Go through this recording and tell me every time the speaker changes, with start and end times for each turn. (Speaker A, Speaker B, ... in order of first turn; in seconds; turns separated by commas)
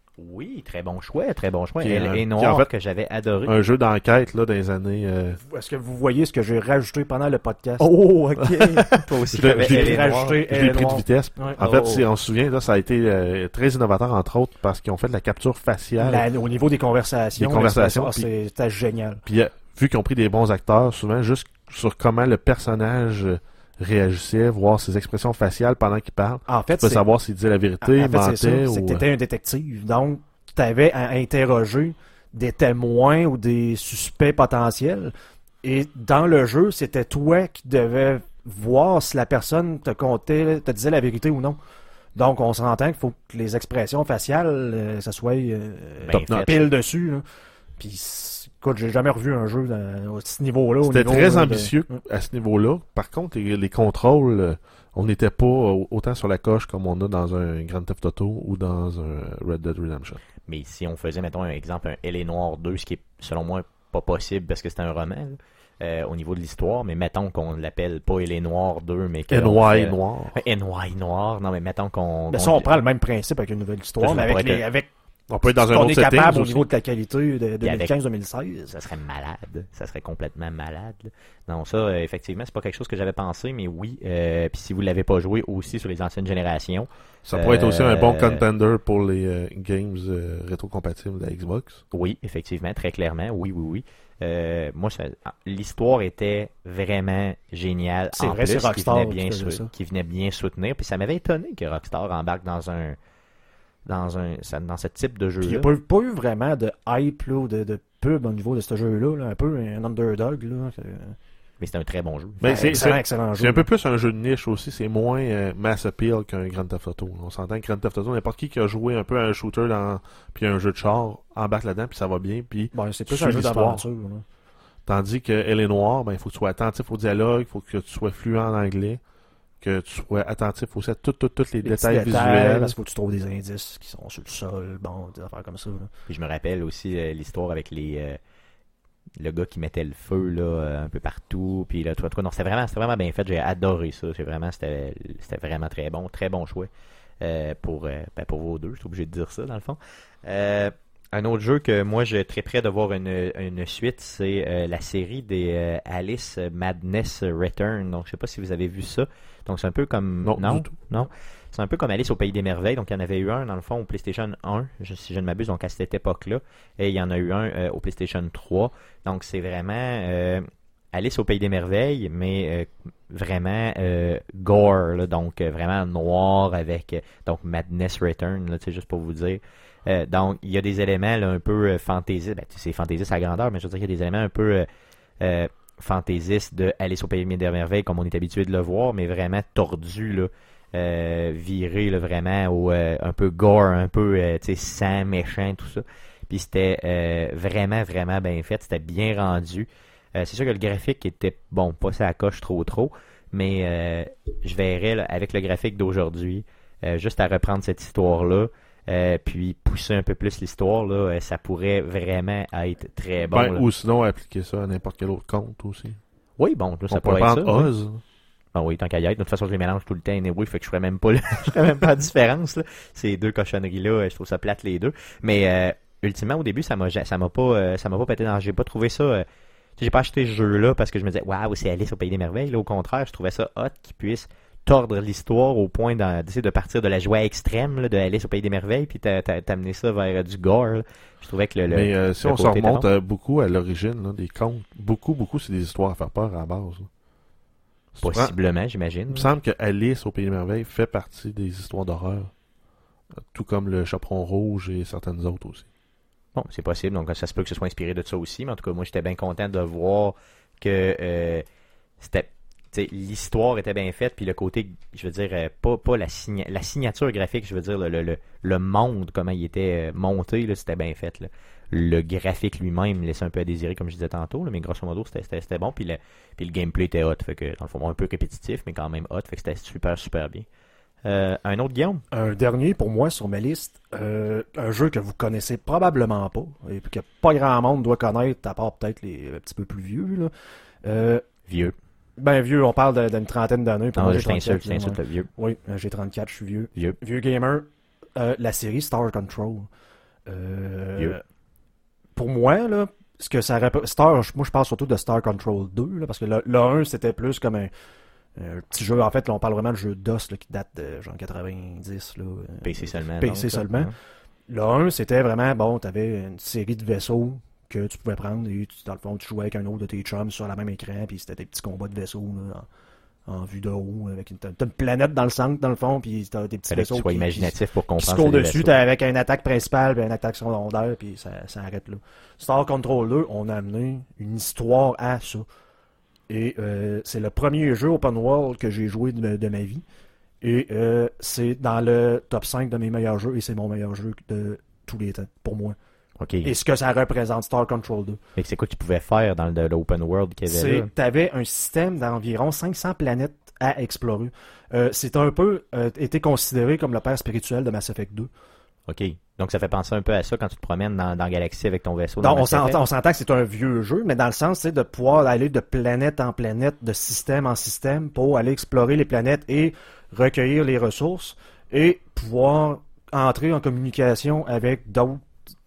Speaker A: 0.2-3.5, Speaker B: 1.8-2.7, Speaker B: 3.4-5.4, Speaker C: 5.4-7.9, Speaker A: 7.8-10.4, Speaker B: 9.3-16.2, Speaker C: 9.5-12.1, Speaker C: 16.0-19.2, Speaker B: 17.4-18.3, Speaker B: 19.2-29.0, Speaker C: 26.5-27.0, Speaker C: 27.8-41.6, Speaker C: 42.1-47.2, Speaker A: 46.0-46.6, Speaker B: 46.1-46.5, Speaker C: 47.8-52.0, Speaker B: 50.8-60.2, Speaker A: 60.5-72.7, Speaker B: 69.3-70.4, Speaker C: 72.3-74.9, Speaker A: 74.0-74.6, Speaker B: 75.3-76.7, Speaker C: 75.4-78.7, Speaker A: 77.6-77.9, Speaker A: 78.7-88.4, Speaker B: 87.2-91.8, Speaker A: 91.9-103.0, Speaker C: 98.1-99.7, Speaker A: 103.8-105.7, Speaker C: 105.4-111.2, Speaker A: 111.6-112.7, Speaker B: 112.4-123.8, Speaker C: 112.4-113.7, Speaker C: 122.7-124.2, Speaker B: 124.8-129.0, Speaker B: 129.6-132.8, Speaker C: 131.6-135.9, Speaker A: 136.1-138.2, Speaker A: 139.2-184.7, Speaker B: 160.2-160.7, Speaker A: 185.2-213.6, Speaker B: 213.3-216.0, Speaker A: 216.4-217.7, Speaker B: 216.9-218.0, Speaker A: 218.5-229.2, Speaker A: 229.8-242.9, Speaker B: 241.7-246.9, Speaker B: 247.9-248.3, Speaker A: 248.0-249.3, Speaker B: 249.1-252.3, Speaker B: 253.2-255.7, Speaker A: 256.3-261.4, Speaker A: 262.0-280.4, Speaker A: 281.0-282.0, Speaker C: 282.1-290.3, Speaker C: 290.8-291.2, Speaker A: 291.5-291.7, Speaker C: 292.2-299.7, Speaker A: 293.9-295.3, Speaker C: 300.2-301.2, Speaker C: 302.1-307.7, Speaker C: 308.4-313.9, Speaker A: 312.6-313.9, Speaker C: 314.5-322.7, Speaker C: 323.2-335.4, Speaker A: 326.7-328.7, Speaker C: 336.3-339.8, Speaker C: 340.4-345.8, Speaker A: 346.2-346.5, Speaker C: 346.4-348.2, Speaker A: 348.4-350.9, Speaker C: 350.5-358.3, Speaker A: 358.9-362.8, Speaker C: 362.2-375.2